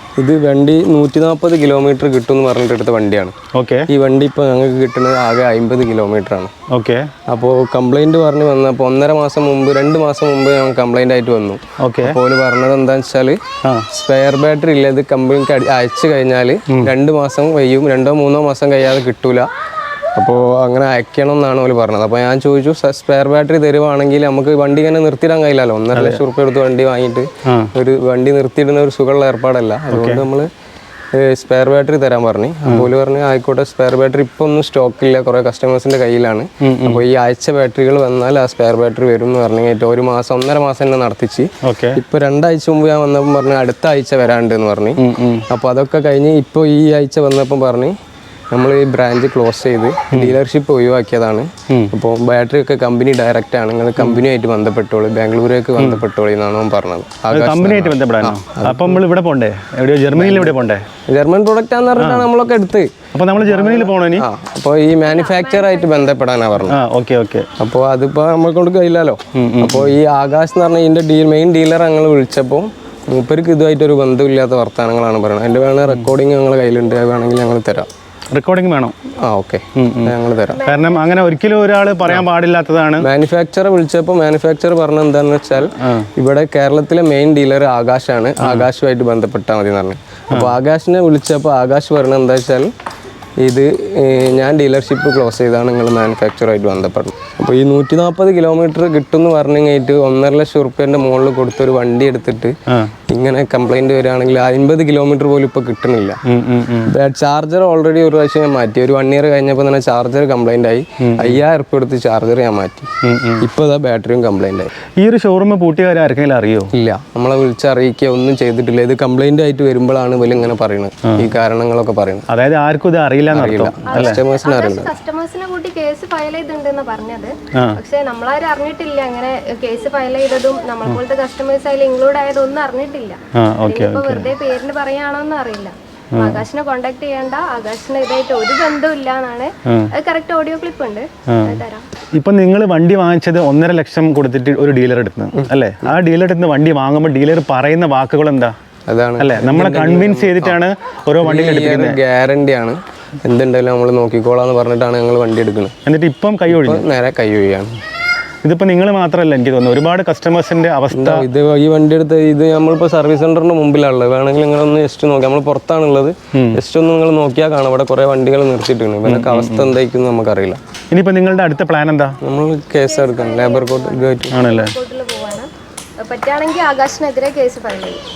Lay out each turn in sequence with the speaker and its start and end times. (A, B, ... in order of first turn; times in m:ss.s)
0:00.2-0:03.3 A
0:03.5-0:03.9 B
0:03.9-0:06.5 A
0:06.7-0:07.1 B
0:07.3-0:13.4 A
0:11.8-0:12.2 B
0:13.9-0:19.5 A
0:20.2-0:30.5 A
0:25.9-0:26.2 B
0:29.9-0:30.2 B
0:31.1-0:45.0 A
0:36.6-0:37.0 B
0:41.6-0:42.0 B
0:45.0-0:45.4 B
0:45.5-0:47.9 A
0:48.5-0:59.0 A
0:50.1-0:50.4 B
0:54.0-0:54.2 B
0:55.8-0:56.0 B
0:57.3-1:00.8 B
1:00.1-1:06.8 A
1:02.0-1:02.3 B
1:03.1-1:04.2 B
1:05.1-1:06.0 C
1:06.7-1:07.5 B
1:07.6-1:17.9 A
1:09.3-1:10.0 B
1:18.3-1:18.9 B
1:19.2-1:20.6 A
1:19.7-1:23.1 B
1:20.6-1:20.9 C
1:23.0-1:32.7 A
1:25.8-1:26.1 B
1:28.4-1:28.7 B
1:30.3-1:30.6 B
1:33.4-1:42.5 A
1:43.1-1:46.2 A
1:46.3-1:46.9 B
1:46.9-1:52.9 A
1:51.0-1:51.4 B
1:53.0-1:53.4 B
1:53.4-1:54.7 A
1:55.0-1:56.7 B
1:56.7-2:02.3 A
2:02.3-2:04.2 B
2:03.3-2:04.9 A
2:03.8-2:21.8 C
2:13.4-2:14.3 B
2:16.1-2:16.4 B
2:21.3-2:21.6 B
2:22.2-2:28.5 B
2:28.9-2:30.6 A
2:29.2-2:32.0 B
2:31.2-2:35.7 A
2:35.8-2:36.8 B
2:36.5-2:37.7 A
2:38.4-2:41.3 B
2:40.9-2:50.6 A
2:49.0-2:49.7 B
2:50.9-2:52.2 B
2:52.2-2:54.4 A
2:52.8-2:55.5 C
2:54.3-2:54.7 B
2:56.0-2:58.0 C